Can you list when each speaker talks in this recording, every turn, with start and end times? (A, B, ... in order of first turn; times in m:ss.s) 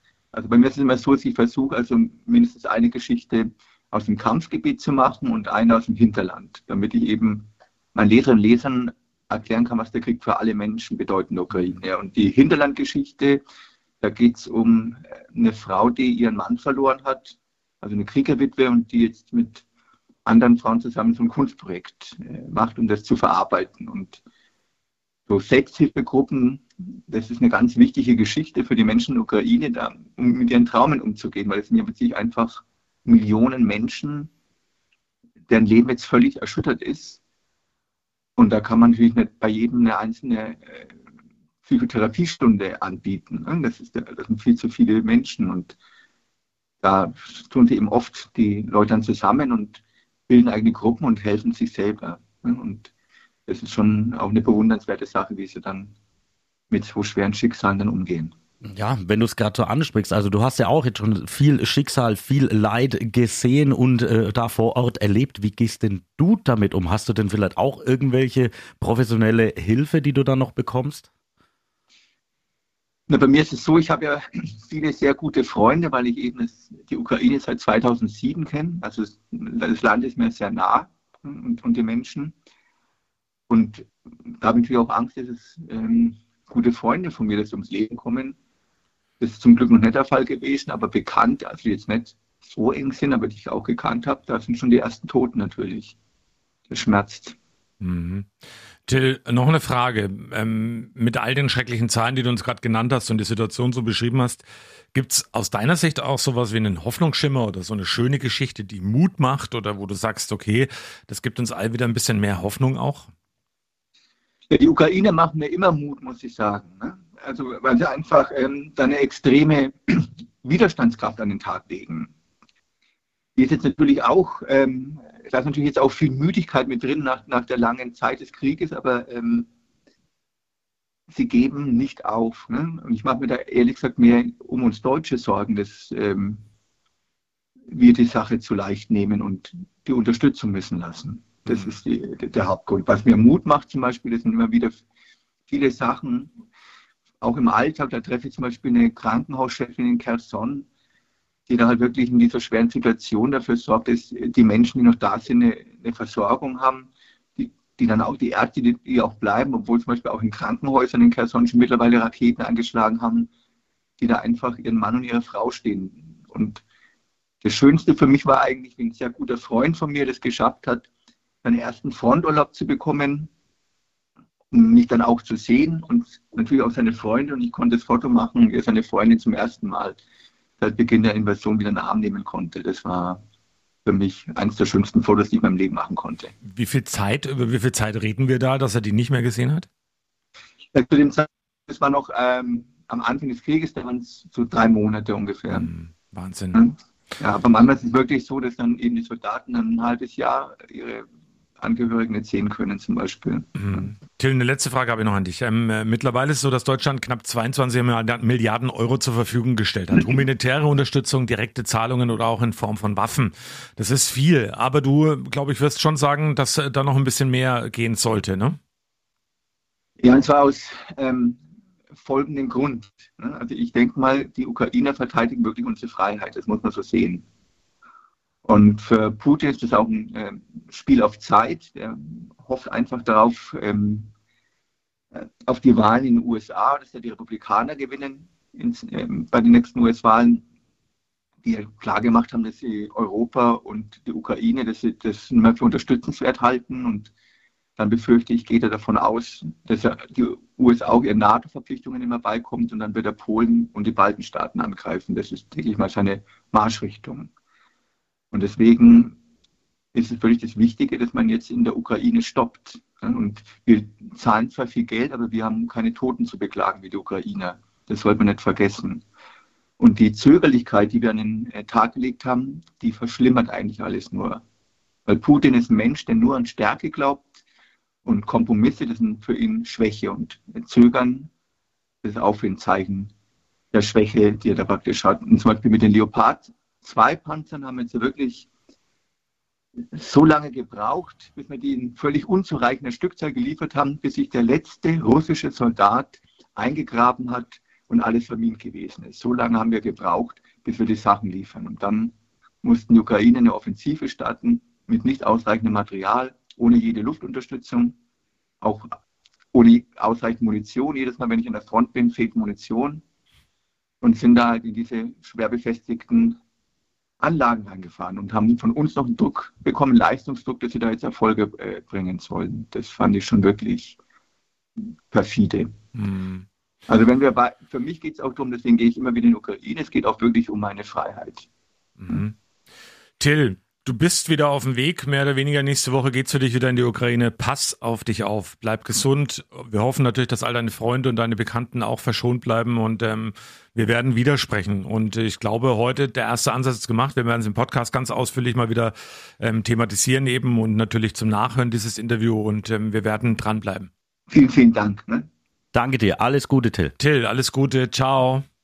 0:00.3-0:13.4 A
0:14.0-0:19.6 A
0:20.3-0:24.2 A
0:25.3-0:34.3 A
0:35.5-0:37.2 A
0:38.4-0:40.9 A
0:41.6-0:45.7 A
0:46.8-0:52.9 A
0:53.5-0:55.9 A
0:56.7-0:58.3 A
0:58.6-1:11.1 B
1:13.1-1:22.3 A
1:23.5-1:28.4 A
1:29.2-1:36.0 A
1:36.7-1:37.4 A
1:37.8-1:38.3 C
1:38.9-1:53.1 C
1:54.5-2:02.1 A
2:03.4-2:09.5 A
2:11.1-2:16.4 A
2:17.7-2:24.8 A
2:21.5-2:21.8 C
2:25.5-2:26.4 A
2:27.2-2:30.7 A
2:31.5-2:43.3 A
2:44.0-2:46.6 A
2:47.4-2:50.9 A
2:51.4-2:53.3 A
2:54.5-3:00.0 A
3:00.6-3:03.2 A
3:03.8-3:06.3 A
3:06.4-3:09.7 C
3:10.7-3:15.7 A
3:15.5-3:16.6 C
3:16.5-3:21.1 A
3:21.6-3:23.9 A
3:23.6-3:38.6 C
3:40.0-3:41.4 A
3:42.0-3:47.2 A
3:48.4-3:54.1 A
3:55.1-4:00.4 A
4:01.4-4:07.1 A
4:07.8-4:17.3 A
4:18.3-4:19.1 A
4:19.9-4:29.0 A
4:29.8-4:34.4 A
4:35.1-4:37.2 A
4:38.0-4:41.3 A
4:42.0-4:43.1 A
4:43.7-4:48.5 A
4:49.9-5:08.0 A
5:08.6-5:09.0 A
5:09.5-5:13.0 A
5:14.0-5:16.4 A
5:17.2-5:24.0 A
5:24.8-5:25.7 A
5:26.0-5:26.4 C
5:26.9-5:31.5 A
5:32.0-5:32.3 C
5:33.2-5:53.9 C
5:54.3-5:55.3 A
5:55.7-5:56.9 B
5:57.0-5:58.4 C